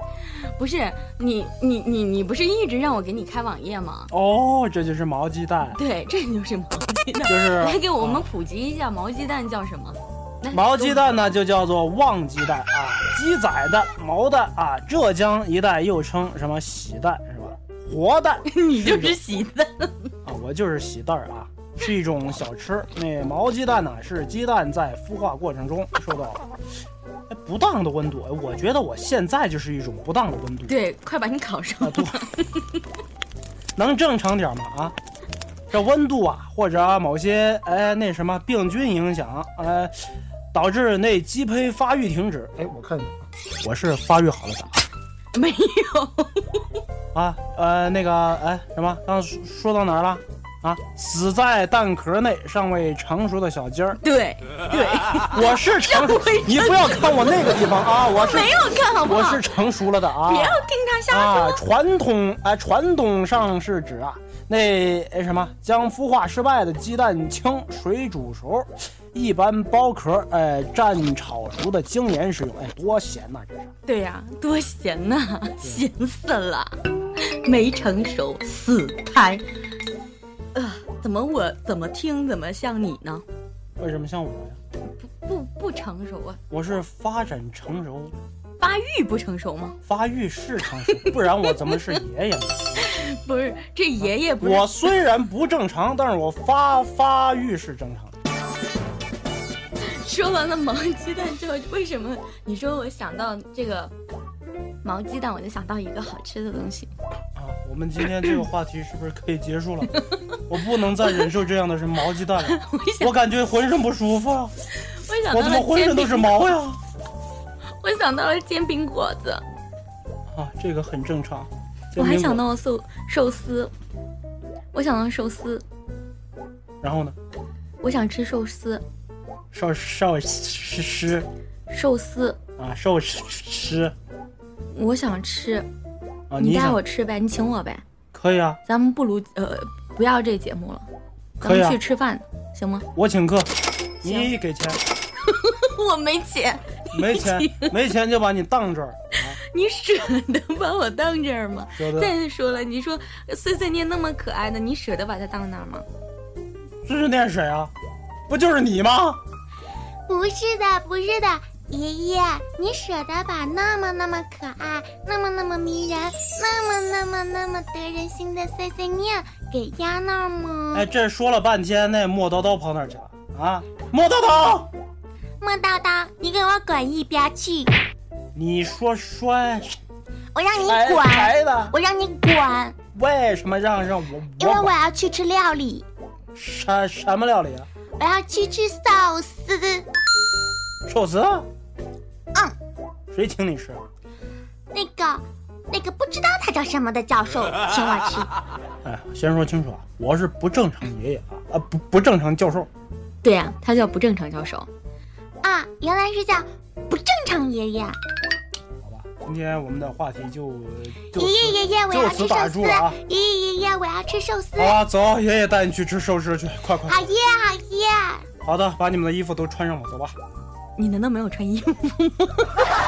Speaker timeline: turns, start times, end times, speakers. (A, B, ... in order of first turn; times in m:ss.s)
0:00.2-0:04.1 A
0:04.1-0:05.8 B
0:05.7-0:11.1 A
0:07.2-0:08.2 B
0:10.5-0:19.2 B
0:18.4-0:20.1 A
0:20.2-0:26.4 B
0:27.3-0:30.8 B
0:30.7-0:32.6 A
0:31.8-0:32.2 B
0:33.8-0:35.0 B
0:35.7-0:44.8 B
0:45.3-0:46.6 A
0:47.1-0:54.0 B
0:54.0-0:59.5 A
0:55.1-1:13.7 B
1:00.1-1:01.6 A
1:13.8-1:19.4 A
1:20.5-1:23.2 A
1:23.8-1:24.6 B
1:25.0-1:26.4 A
1:26.5-1:28.2 B
1:28.6-1:29.8 A
1:29.8-1:32.8 B
1:30.9-1:32.0 A
1:32.8-1:34.9 A
1:34.0-1:38.1 B
1:39.8-1:43.9 A
1:44.8-1:46.9 A
1:47.4-1:54.5 B
1:49.9-1:50.3 A
1:51.0-1:51.3 A
1:52.4-1:53.1 A
1:54.7-1:56.5 A
1:55.3-1:56.8 B
1:57.8-1:59.4 A
2:00.3-2:02.4 B
2:01.9-2:03.7 A
2:04.7-2:05.6 A
2:06.8-2:07.2 B
2:07.8-2:08.8 A
2:09.5-2:11.3 B
2:11.7-2:12.4 A
2:12.6-2:13.9 B
2:14.7-2:15.7 A
2:16.3-2:16.8 B
2:16.4-2:17.8 A
2:18.1-2:18.6 B
2:18.6-2:20.9 A
2:21.4-2:22.9 A
2:21.4-2:21.8 B
2:23.0-2:24.8 B
2:24.0-2:24.3 A
2:25.2-2:27.8 A
2:26.9-2:29.4 B
2:29.4-2:35.8 A
2:31.7-2:32.1 B
2:36.8-2:37.7 B
2:38.3-2:39.2 B
2:40.1-2:50.8 C
2:50.7-2:54.7 B
2:55.4-2:57.7 C
2:58.3-2:59.8 B
3:00.4-3:02.7 C
3:00.5-3:01.1 A
3:00.6-3:01.7 B
3:02.9-3:04.7 B
3:04.4-3:05.8 C
3:06.3-3:07.7 B
3:08.0-3:09.8 C
3:10.9-3:11.5 B
3:13.1-3:13.8 B
3:14.7-3:18.3 C
3:18.8-3:22.7 B
3:23.2-3:24.7 A
3:25.4-3:28.0 C
3:28.8-3:33.0 B
3:31.2-3:34.8 C
3:34.6-3:37.0 B
3:36.9-3:38.2 C
3:38.4-3:40.2 B
3:40.8-3:42.7 A